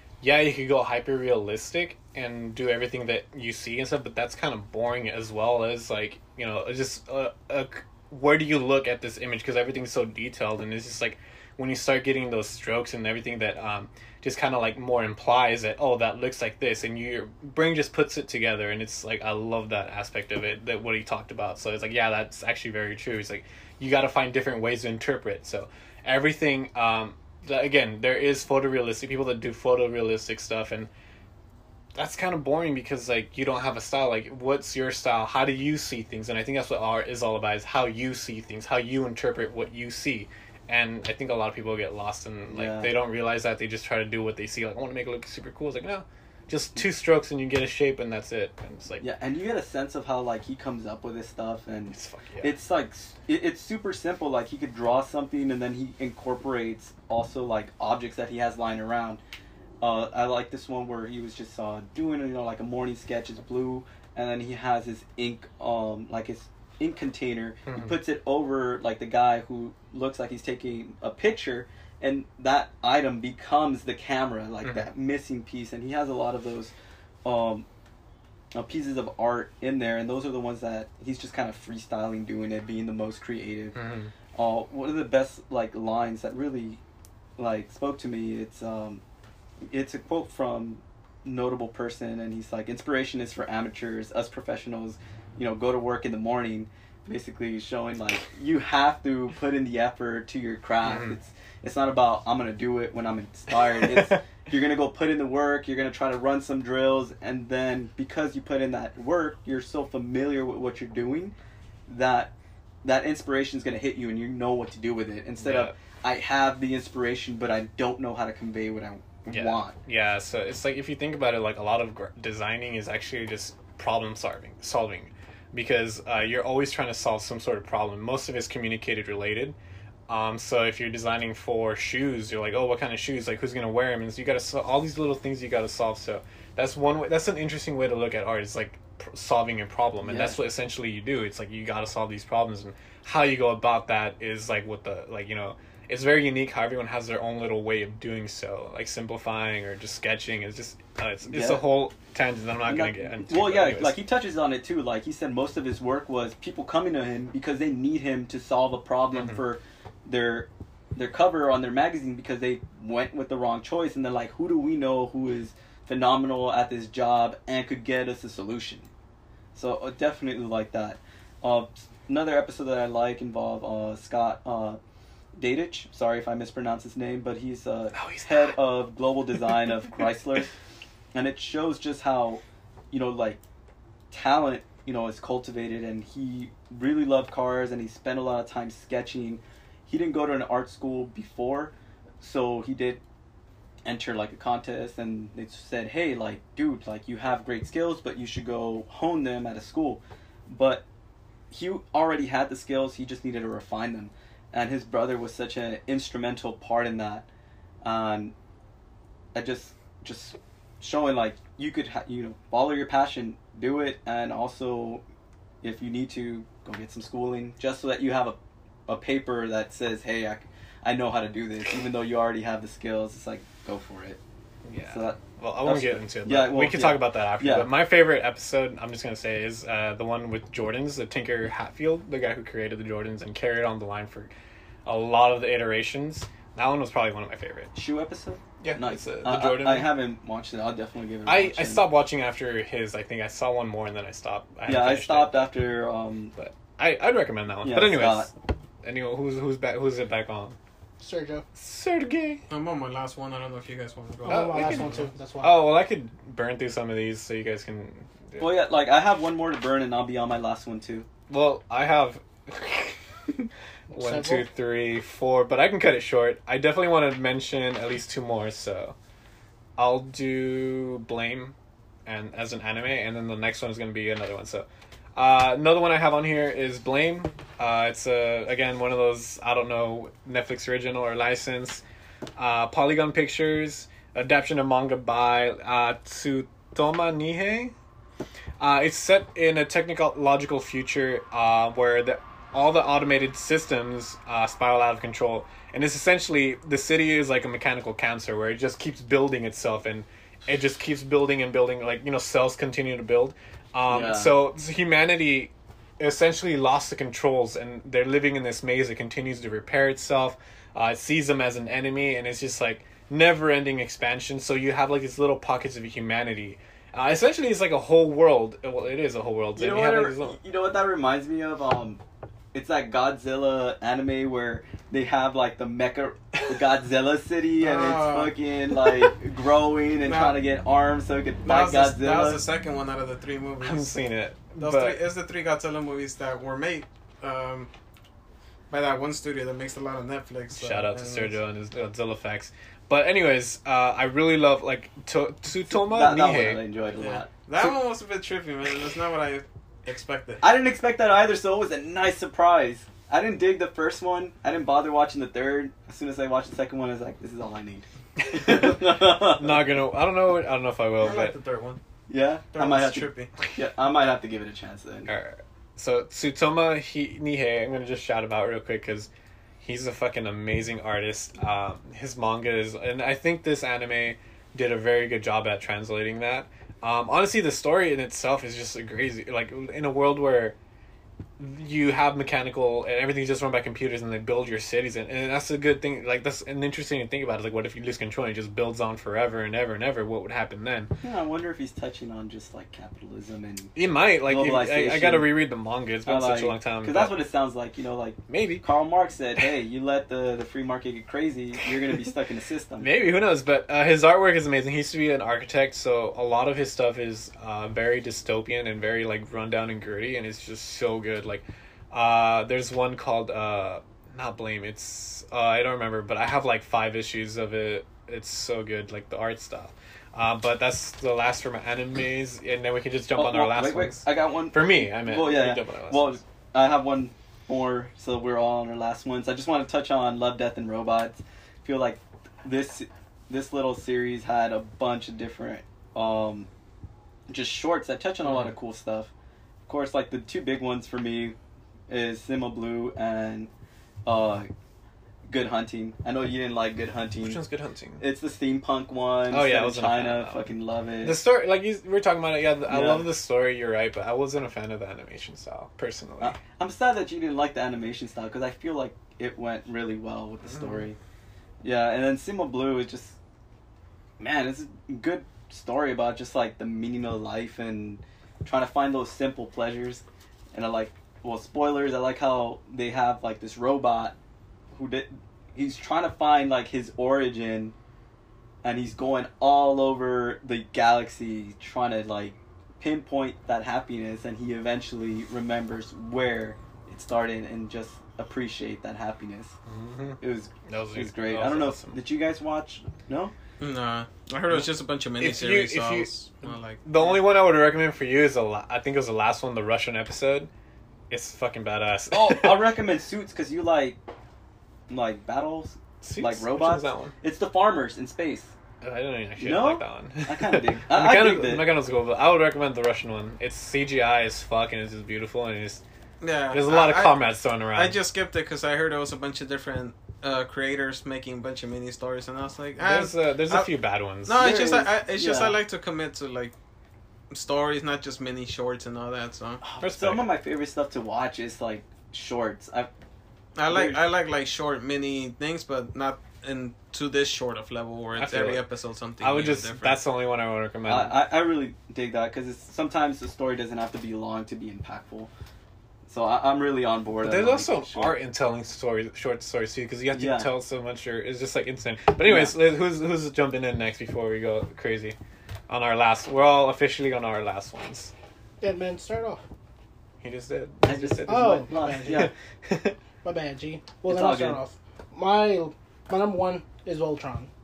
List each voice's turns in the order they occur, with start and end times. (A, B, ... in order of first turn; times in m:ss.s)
0:00.2-0:30.9 A
0:32.0-0:49.0 A
0:42.5-0:42.9 B
0:49.0-0:59.2 B
0:51.9-0:52.6 A
0:59.8-1:16.7 B
1:07.7-1:07.9 A
1:17.2-1:17.7 B
1:18.5-1:23.8 B
1:23.8-1:24.1 A
1:24.4-1:26.8 B
1:27.4-1:29.0 B
1:29.7-1:51.4 B
1:40.9-1:41.1 A
1:43.8-1:44.1 A
1:51.9-1:52.3 B
1:52.8-1:59.8 B
1:55.4-1:55.7 A
1:59.3-2:09.6 A
2:10.1-2:34.0 A
2:20.0-2:20.4 B
2:31.3-2:31.6 B
2:32.7-2:48.9 B
2:49.6-2:54.8 B
2:55.4-3:00.5 B
2:57.9-2:58.6 A
3:01.1-3:03.4 B
3:04.1-3:13.0 B
3:13.8-3:20.8 B
3:21.5-3:27.3 B
3:27.8-3:28.4 B
3:29.3-3:35.0 B
3:35.6-3:44.2 B
3:44.7-3:54.3 A
3:44.9-3:47.7 B
3:54.9-3:57.7 A
3:57.7-4:01.9 B
3:58.6-3:59.9 A
4:01.3-4:05.5 A
4:04.7-4:06.3 B
4:06.4-4:08.3 A
4:07.6-4:08.3 B
4:08.8-4:10.6 A
4:11.0-4:11.5 C
4:11.6-4:12.4 A
4:12.5-4:15.1 D
4:14.2-4:15.6 C
4:14.3-4:18.6 A
4:18.4-4:21.1 B
4:21.3-4:29.0 A
4:23.9-4:24.5 C
4:29.8-4:41.8 A
4:42.4-4:47.7 A
4:48.6-5:20.4 A
5:03.9-5:04.4 B
5:19.6-5:22.0 B
5:22.5-5:32.4 B
5:27.6-5:28.3 D
5:30.1-5:30.4 D
5:31.4-5:33.9 D
5:33.6-5:35.0 A
5:34.6-5:37.7 D
5:38.7-5:41.4 D
5:40.5-5:46.6 A
5:45.7-5:47.3 B
5:47.0-5:50.4 D
5:50.4-5:59.7 B
5:58.3-6:01.4 A
6:01.0-6:01.8 D
6:02.1-6:05.1 B
6:02.5-6:03.3 D
6:05.1-6:09.1 A
6:09.6-6:20.6 A
6:21.4-6:30.9 A
6:31.0-6:33.7 B
6:33.8-6:37.2 A
6:34.3-6:35.4 B
6:36.0-6:42.9 B
6:38.3-6:38.6 A
6:42.8-7:06.2 A
7:03.2-7:16.5 B
7:17.3-7:19.1 B
7:18.3-7:18.5 A
7:19.7-7:21.4 B
7:21.9-7:23.5 B
7:24.0-7:24.5 B
7:25.3-7:27.4 B
7:27.2-7:28.0 A
7:28.0-7:31.2 B
7:29.3-7:30.5 A
7:31.0-7:36.4 A
7:32.7-7:33.1 B
7:36.2-7:41.0 B
7:41.6-7:43.2 B
7:44.2-7:54.2 B
7:54.7-7:57.8 B
7:58.6-8:09.6 B
8:09.7-8:12.0 A
8:10.2-8:13.3 B
8:13.6-8:16.8 D
8:15.2-8:16.1 A
8:16.8-8:20.5 A
8:21.1-8:22.7 A
8:22.1-8:24.0 B
8:24.9-8:28.5 B
8:26.0-8:27.1 A
8:28.8-8:35.8 A
8:29.4-8:31.7 B
8:36.2-8:37.2 D
8:36.5-8:38.0 A
8:37.7-8:43.7 D
8:42.8-8:44.5 A
8:44.2-8:46.5 D
8:44.4-8:45.6 B
8:47.3-8:49.6 D
8:49.6-8:52.9 B
8:49.8-8:50.3 A
8:53.6-9:00.0 D
8:53.7-8:54.0 B
8:58.2-8:58.6 A
8:59.2-9:01.2 A
9:00.9-9:05.3 B
9:06.1-9:08.2 B
9:07.2-9:15.2 A
9:10.1-9:10.5 B
9:12.2-9:12.6 B
9:15.7-9:18.1 A
9:18.6-9:19.4 C
9:20.2-9:23.0 A
9:20.8-9:22.3 B
9:21.3-9:22.3 C
9:23.2-9:27.5 C
9:24.1-9:24.6 B